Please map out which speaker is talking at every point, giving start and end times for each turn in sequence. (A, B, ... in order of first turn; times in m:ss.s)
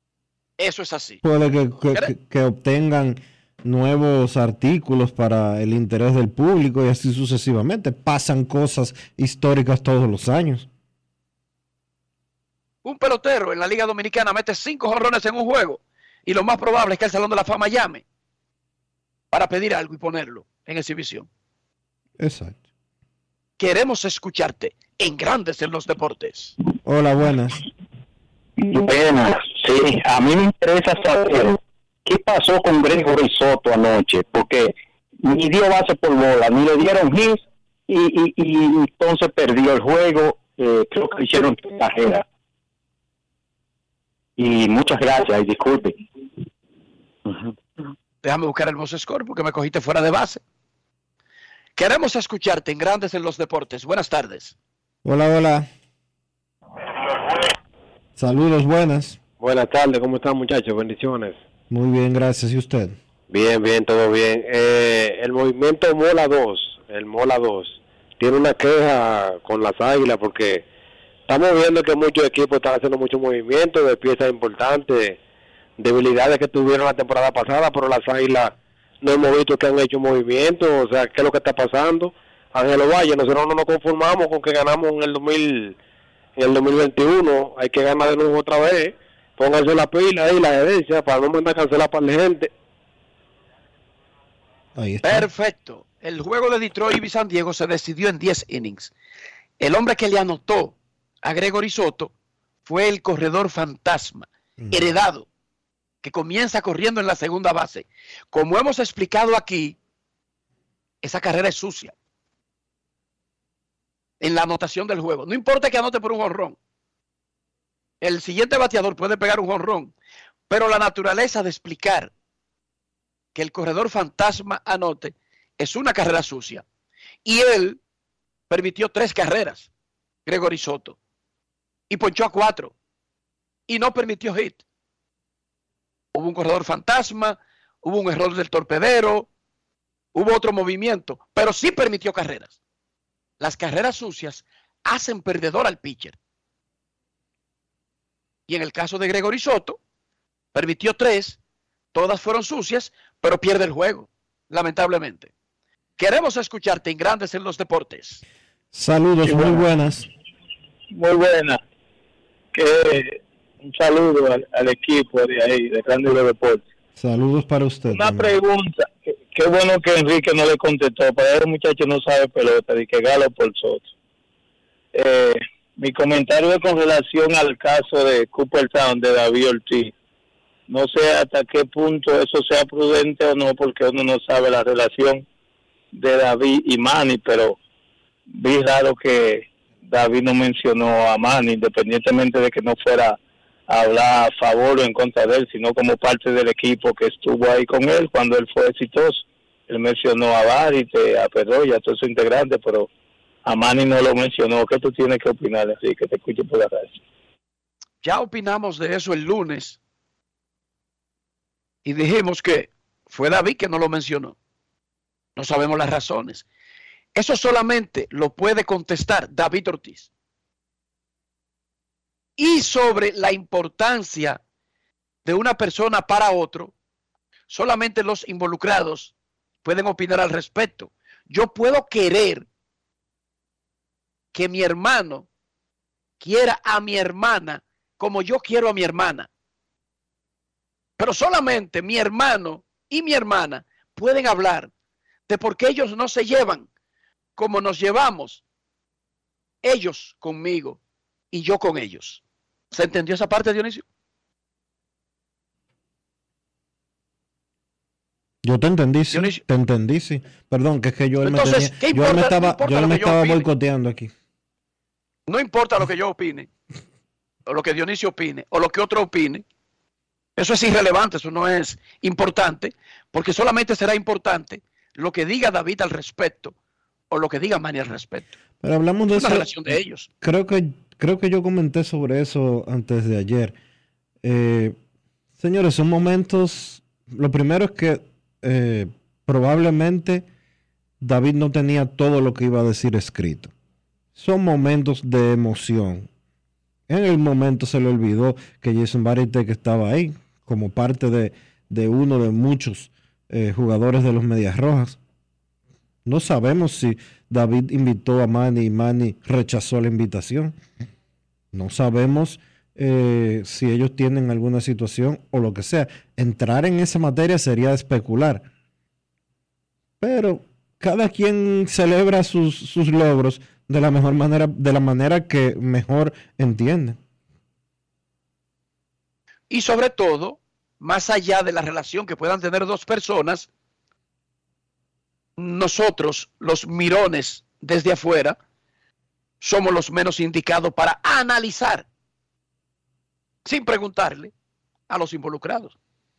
0:00.6-0:01.2 A
0:01.2-0:10.7 B
0:12.8-0:18.0 A
0:19.3-0:21.3 A
0:22.2-0:22.6 B
0:23.6-0:26.6 A
0:26.8-0:27.6 B
0:28.6-0:42.2 C
0:44.4-0:46.0 C
0:47.3-0:47.5 C
0:48.2-0:50.4 A
0:51.8-0:54.6 A
0:55.0-0:55.7 B
0:58.2-0:59.2 B
0:59.4-1:01.3 D
1:01.7-1:03.0 B
1:03.4-1:07.7 D
1:08.2-1:10.6 D
1:11.3-1:15.2 D
1:15.8-1:18.5 D
1:19.0-1:25.7 D
1:26.4-1:32.5 D
1:34.8-1:35.3 B
1:35.0-1:38.9 A
1:39.6-1:42.1 A
1:42.6-1:45.3 A
1:44.6-1:44.9 B
1:46.0-1:49.8 A
1:51.0-1:51.9 A
1:54.2-1:56.6 A
1:58.0-1:59.9 A
2:00.5-2:02.1 A
2:03.4-2:06.6 A
2:07.2-2:07.8 A
2:08.5-2:09.7 A
2:10.3-2:11.0 A
2:11.9-2:12.7 A
2:13.7-2:14.6 A
2:16.1-2:19.3 A
2:20.1-2:22.6 A
2:23.4-2:26.2 A
2:28.5-2:29.8 A
2:30.5-2:31.4 A
2:31.9-2:35.3 A
2:36.0-2:38.2 A
2:38.7-2:40.1 B
2:39.2-2:39.7 E
2:40.9-2:41.6 E
2:42.5-2:46.6 E
2:47.0-2:48.3 B
2:47.9-2:53.9 E
2:54.9-2:59.9 E
3:00.7-3:05.2 E
3:05.9-3:07.6 E
3:08.3-3:22.9 E
3:23.5-3:26.9 E
3:28.0-3:29.8 A
3:31.8-3:34.4 A
3:35.4-3:36.4 A
3:37.2-3:40.1 A
3:42.4-3:44.4 A
3:45.2-3:46.7 A
3:47.5-3:49.1 A
3:49.6-3:52.5 A
3:54.3-3:55.3 A
3:56.2-3:59.3 A
4:01.0-4:04.7 A
4:05.3-4:06.7 A
4:07.4-4:08.4 A
4:09.6-4:10.8 A
4:11.3-4:13.8 A
4:18.4-4:24.1 B
4:19.1-4:19.4 A
4:21.2-4:23.5 A
4:25.3-4:26.5 A
4:27.5-4:29.4 A
4:30.4-4:36.5 A
4:37.1-4:38.4 A
4:38.6-4:43.6 B
4:39.1-4:40.1 A
4:44.2-4:44.8 B
4:45.4-4:50.2 B
4:51.0-4:53.5 B
4:54.2-4:56.1 B
4:56.9-5:05.0 B
5:06.0-5:10.6 B
5:11.5-5:18.5 B
5:20.0-5:27.0 B
5:29.5-5:33.5 A
5:35.4-5:38.4 A
5:39.4-5:41.9 A
5:43.5-5:44.3 A
5:44.9-5:45.7 A